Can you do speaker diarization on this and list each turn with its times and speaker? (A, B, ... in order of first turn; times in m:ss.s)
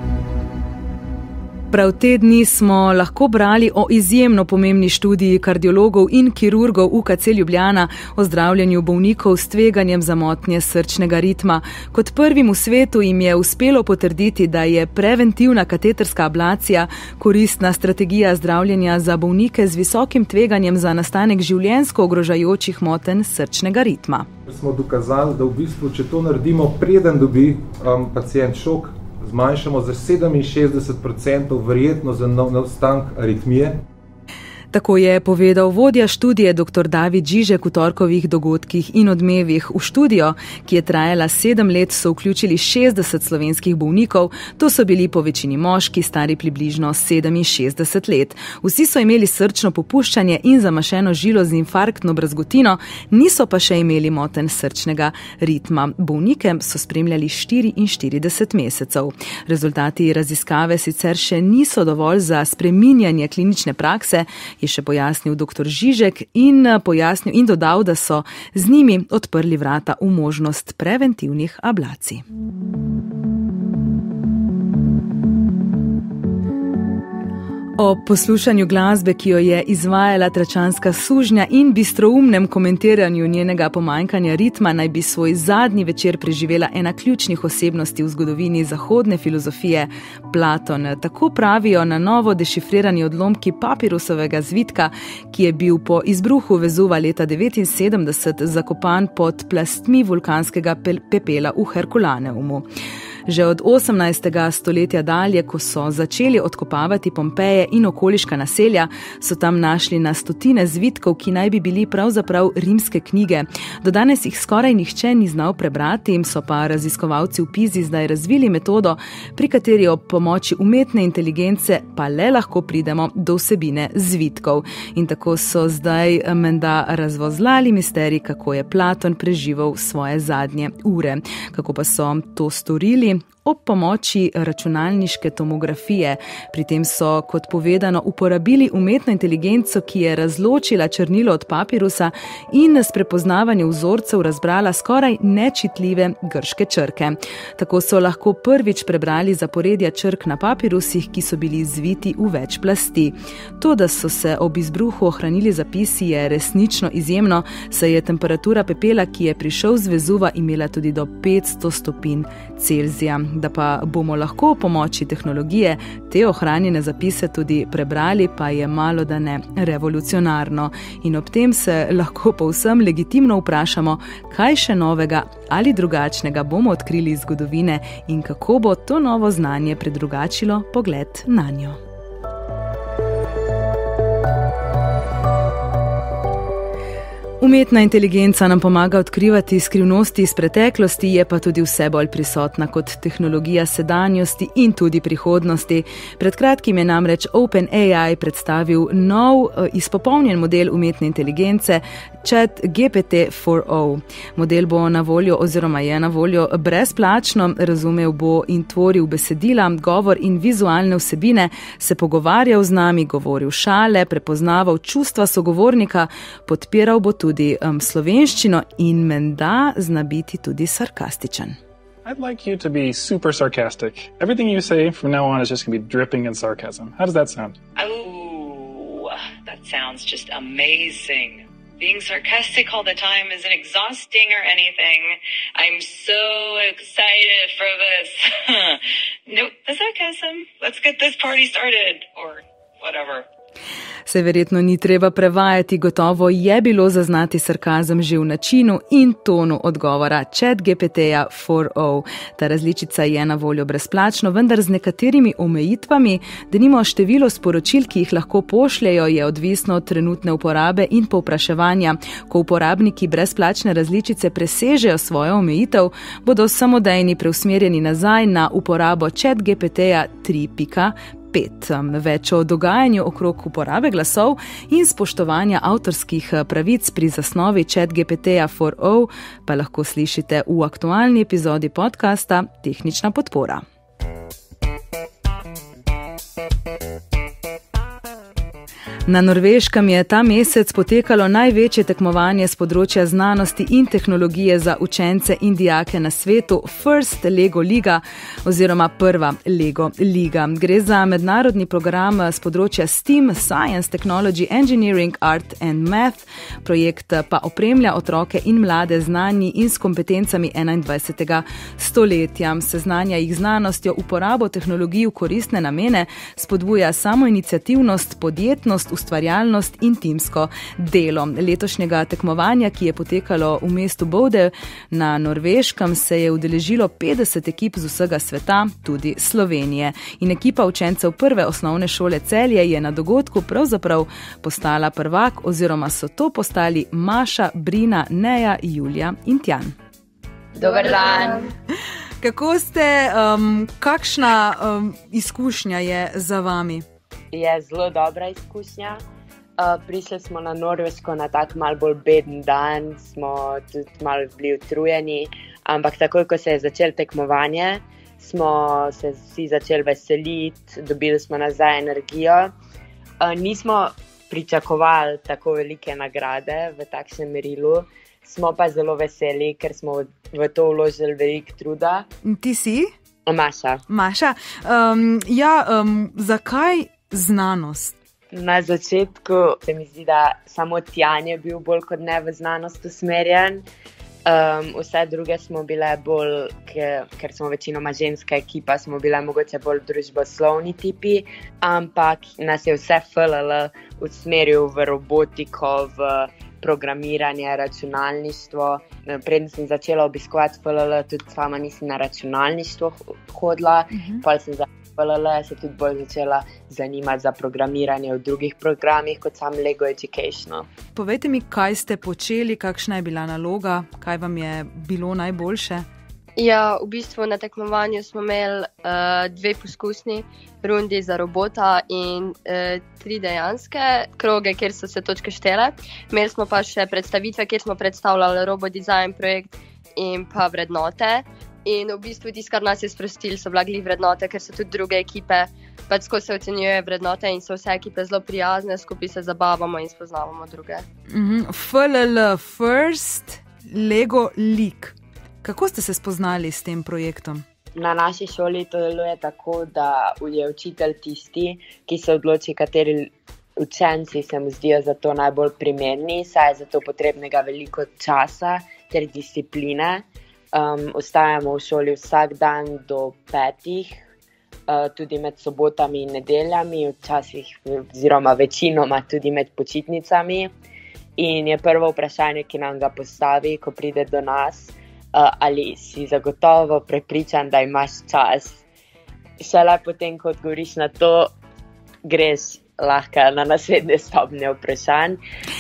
0:01.7-0:24.3 A
0:24.5-0:33.8 B
0:34.7-1:12.2 A
1:17.8-1:42.6 A
1:43.3-3:01.8 A
3:07.4-3:41.6 A
3:42.0-3:47.6 C
3:47.8-4:03.3 D
4:04.1-4:43.6 A
4:49.1-5:39.7 A
5:40.6-5:41.5 E
5:40.6-5:41.3 F
5:42.2-5:46.8 A
5:47.3-5:49.0 E
5:49.6-6:02.5 E
6:03.2-6:12.1 E
6:12.2-6:12.9 A
6:13.3-6:13.8 E
6:13.9-6:17.9 A
6:18.3-6:23.6 E
6:24.2-6:50.7 E
6:51.0-6:55.9 A
6:56.4-7:20.8 F
7:21.1-7:27.4 A
7:27.8-7:44.0 E
7:44.7-7:50.5 E
7:51.2-7:58.6 E
7:59.4-8:01.4 E
8:02.0-8:05.2 E